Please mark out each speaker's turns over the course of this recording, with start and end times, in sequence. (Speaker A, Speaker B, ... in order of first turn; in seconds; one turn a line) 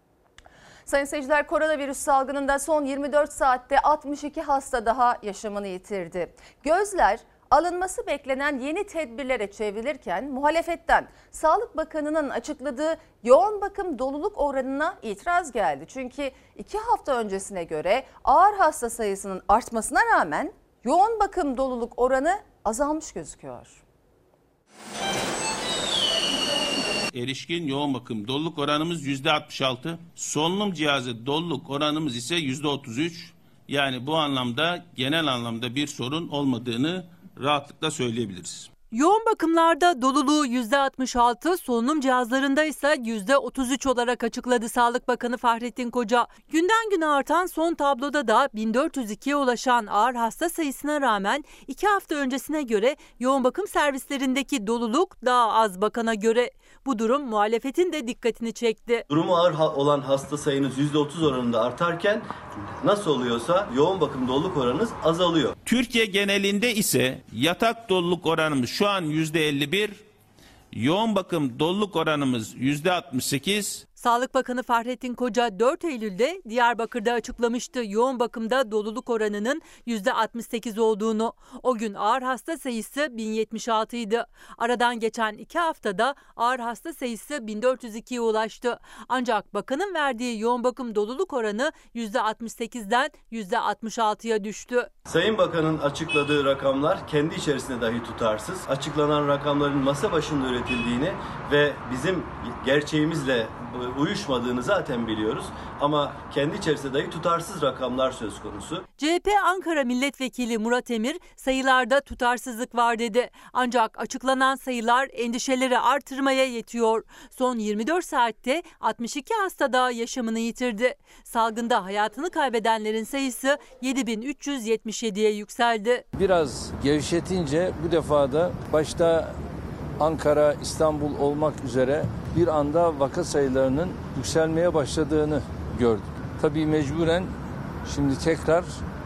Speaker A: 0.8-23.8
Speaker B: 27.1-38.7
Speaker C: 38.9-59.0
Speaker D: 59.1-62.3
Speaker D: 62.8-65.5
Speaker B: 65.6-70.0
Speaker B: 70.7-73.8
Speaker C: 74.0-94.9
Speaker D: 95.1-108.8
Speaker C: 109.0-126.0
Speaker E: 126.1-129.4
Speaker E: 130.0-137.3
Speaker E: 137.8-138.8